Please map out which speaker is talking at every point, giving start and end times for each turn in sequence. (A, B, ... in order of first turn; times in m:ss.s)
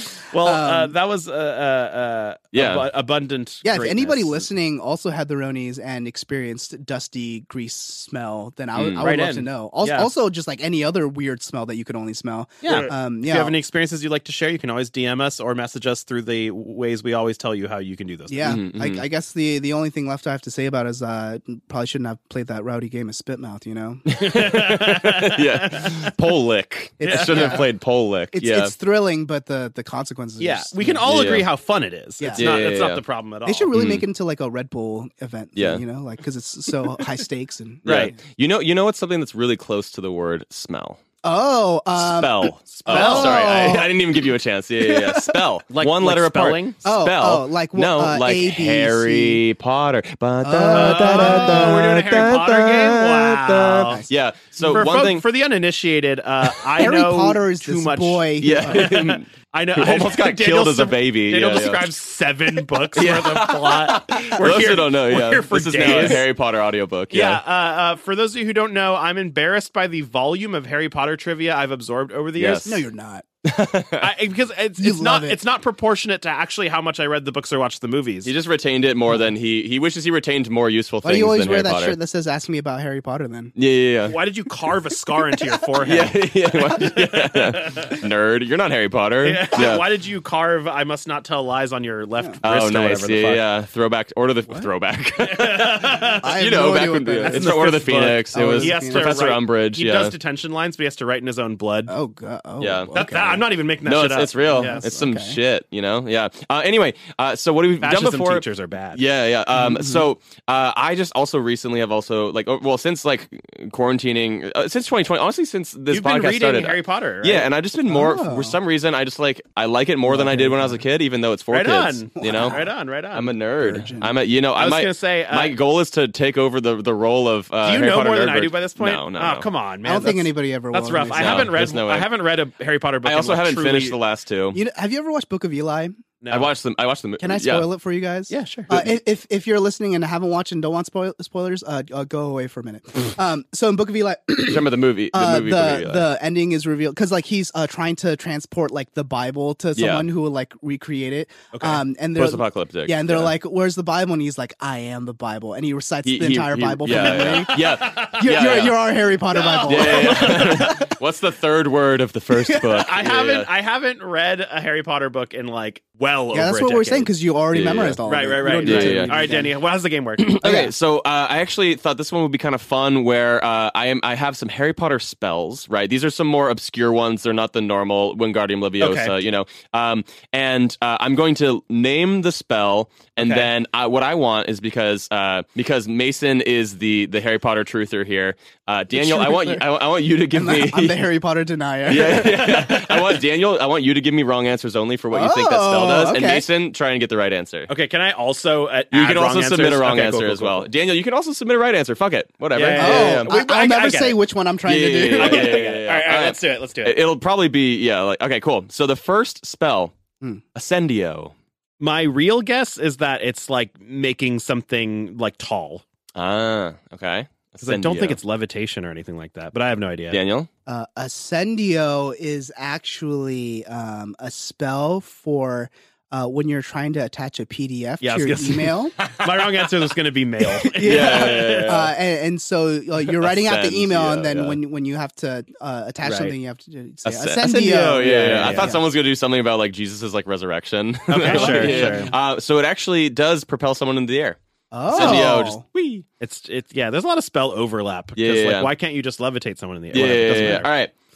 0:00.2-0:04.4 A
0:00.4-0:00.9 B
0:02.5-0:02.9 C
0:03.6-0:13.5 B
0:08.7-0:09.0 C
0:09.0-0:10.1 A
0:12.6-0:18.5 A
0:18.3-0:24.0 B
0:18.4-0:19.0 C
0:24.1-0:28.7 C
0:24.2-0:26.0 A
0:27.0-0:27.7 B
0:27.0-0:27.6 A
0:28.3-0:31.0 B
0:30.4-0:33.7 A
0:31.0-0:31.5 C
0:32.2-0:32.6 B
0:32.4-0:33.0 C
0:33.4-0:38.1 B
0:33.7-0:34.0 C
0:35.6-0:35.8 C
0:37.8-0:38.2 A
0:37.8-0:41.0 C
0:41.2-0:43.9 B
0:42.0-0:55.2 C
0:42.6-0:43.8 A
0:44.8-0:45.4 B
0:45.7-0:46.8 A
0:46.8-0:49.4 B
0:50.4-0:51.9 B
0:50.7-0:54.0 A
0:54.6-1:06.3 A
0:56.8-0:59.0 B
0:58.4-1:01.9 C
1:02.9-1:07.4 C
1:07.1-1:12.8 A
1:12.4-1:12.8 C
1:12.6-1:13.2 B
1:13.4-1:14.1 C
1:14.0-1:18.3 A
1:14.8-1:15.4 B
1:18.2-1:22.0 C
1:21.0-1:23.5 B
1:23.6-1:24.2 C
1:24.0-1:28.0 A
1:25.8-1:29.8 C
1:29.2-1:33.4 A
1:32.4-1:40.1 C
1:35.2-1:36.3 A
1:36.2-1:37.7 B
1:37.2-1:41.9 A
1:38.3-1:39.2 B
1:41.9-1:43.4 B
1:42.6-2:02.6 C
1:42.9-1:44.8 A
1:44.5-1:45.4 B
1:47.8-1:49.0 A
1:49.5-1:50.0 B
1:55.9-1:57.5 A
1:57.9-1:58.6 B
2:00.1-2:00.8 B
2:01.5-2:03.3 A
2:02.2-2:02.7 B
2:03.1-2:09.5 C
2:03.6-2:04.1 B
2:04.6-2:05.6 A
2:07.6-2:14.0 A
2:09.8-2:11.5 B
2:11.1-2:12.1 C
2:13.0-2:14.6 C
2:14.5-2:16.0 B
2:16.2-2:16.5 A
2:16.3-2:17.7 C
2:17.2-2:40.9 B
2:18.3-2:18.7 A
2:24.4-2:26.1 C
2:29.8-2:30.1 C
2:31.5-2:31.8 A
2:32.2-2:33.3 C
2:36.0-2:38.9 C
2:36.9-2:38.2 A
2:39.3-2:40.7 A
2:39.6-2:43.5 C
2:42.4-2:42.7 B
2:42.8-2:47.1 A
2:46.3-2:49.5 B
2:47.5-2:49.4 C
2:48.0-2:50.4 A
2:50.2-3:11.0 C
2:50.4-2:50.7 B
2:58.8-2:59.2 A
3:03.2-3:03.5 A
3:08.9-3:09.6 B
3:10.3-3:12.9 B
3:11.9-3:17.7 C
3:15.1-3:16.5 B
3:17.7-3:20.7 A
3:18.9-3:23.3 C
3:22.5-3:24.2 A
3:22.8-3:25.7 B
3:24.6-3:29.9 C
3:25.2-3:27.0 A
3:30.5-3:31.3 C
3:31.8-3:35.8 A
3:36.1-3:38.2 C
3:37.6-3:40.2 A
3:40.1-3:40.5 C
3:40.7-3:49.0 B
3:48.0-3:51.8 A
3:50.6-3:58.8 B
3:50.8-3:51.9 C
3:53.2-3:54.6 C
3:56.0-3:56.4 A
3:57.0-4:04.4 C
3:58.0-3:58.7 A
4:01.1-4:02.1 A
4:01.2-4:02.1 B
4:04.7-4:05.6 B
4:04.9-4:06.0 C
4:06.2-4:10.7 A
4:08.2-4:08.7 C
4:09.9-4:10.9 C